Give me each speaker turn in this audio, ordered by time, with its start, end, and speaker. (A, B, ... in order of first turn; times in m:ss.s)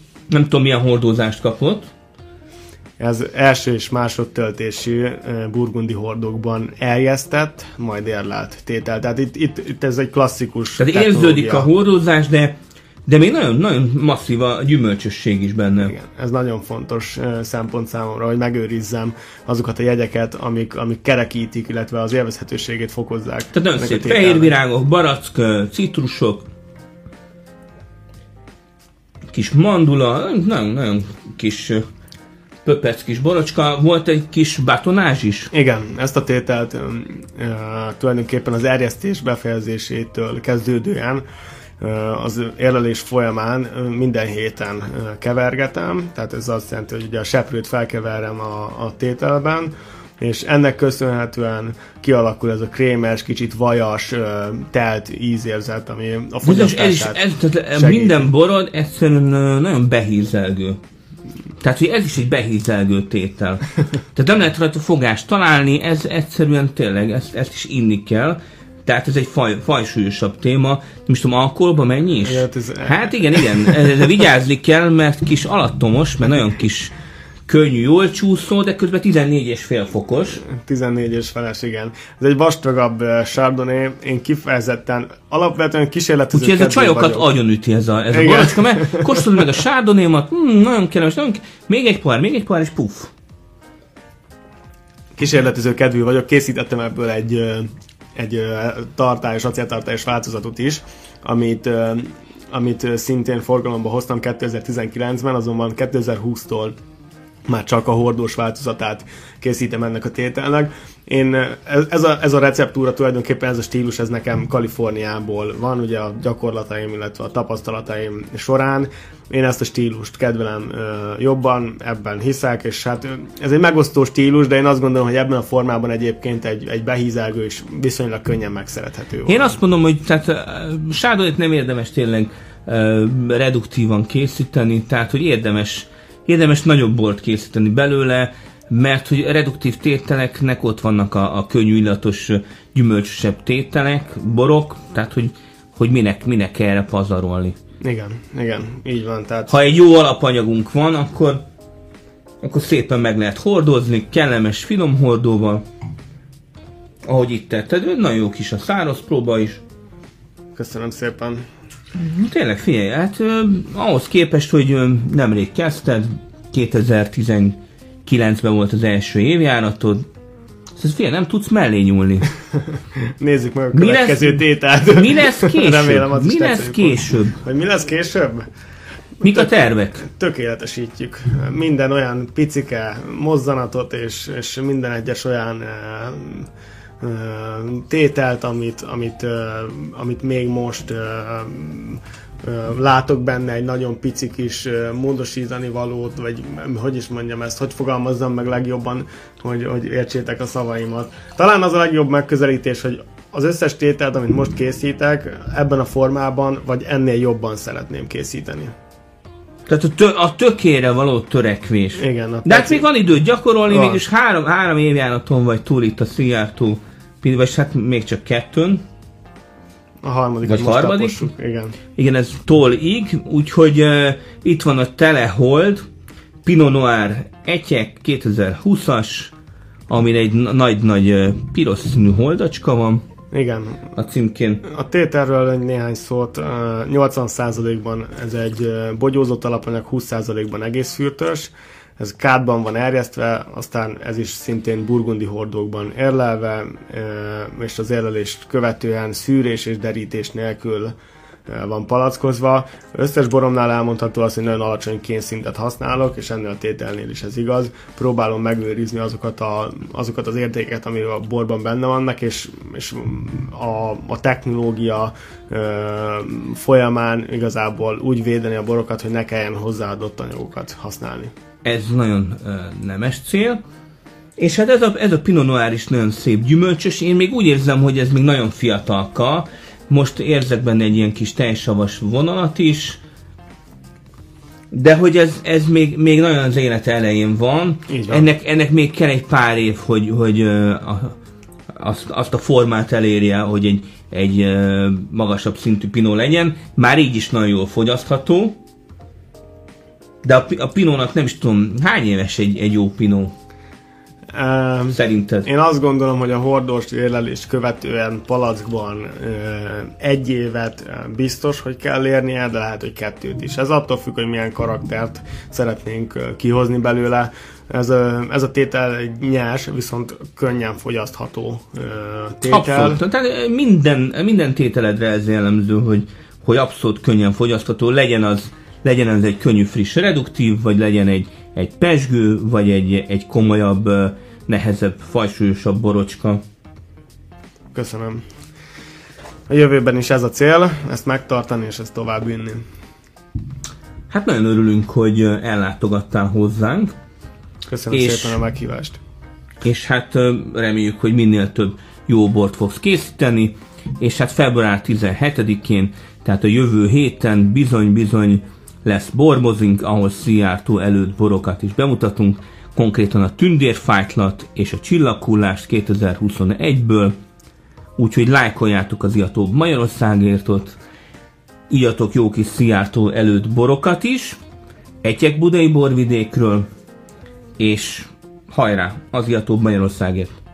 0:00.3-0:01.9 A
0:03.0-0:11.7 B
0:10.8-0:12.6 A
0:13.1-0:15.9 A
0:15.8-0:24.6 B
0:23.5-0:26.5 A
0:29.3-0:31.8 A
0:32.6-0:35.5 A
0:35.5-0:41.2 B
0:41.8-0:58.3 B
0:56.4-1:00.8 A
1:01.6-1:16.9 A
1:12.2-1:13.8 B
1:17.5-1:20.4 A
1:20.4-1:27.3 B
1:26.3-1:33.1 A
1:28.1-1:29.5 B
1:35.2-1:46.8 B
1:47.5-2:09.6 B
2:09.3-2:27.6 A
2:27.8-2:29.6 B
2:29.5-2:31.4 A
2:32.4-2:35.6 A
2:37.1-2:39.6 A
2:40.6-2:41.4 B
2:42.0-2:50.0 A
2:50.8-2:52.3 A
2:53.2-2:58.5 B
2:53.7-2:57.4 A
2:59.2-3:00.0 A
2:59.2-3:06.5 B
3:07.0-3:28.7 B
3:29.7-3:38.8 A
3:32.0-3:32.9 B
3:33.7-3:34.0 B
3:40.0-3:41.8 B
3:40.4-3:41.3 A
3:42.0-3:45.8 A
3:46.4-3:49.3 A
3:49.9-3:53.0 A
3:53.3-3:53.9 B
3:54.0-3:54.6 A
3:54.6-4:10.9 B
4:11.5-4:31.3 B
4:31.6-4:33.6 A
4:34.4-4:43.0 A
4:44.7-4:51.2 A
4:47.9-4:48.3 B
4:51.7-4:58.6 A
5:00.2-5:03.3 A
5:04.3-5:23.0 B
5:04.9-5:05.5 A
5:22.5-5:36.4 A
5:37.7-5:38.2 B
5:39.5-5:42.6 B
5:44.1-5:46.9 A
5:47.7-5:49.0 B
5:47.9-5:48.4 A
5:49.6-6:07.2 A
6:08.0-6:10.8 A
6:11.7-6:14.4 A
6:15.0-6:16.7 A
6:17.6-6:20.4 A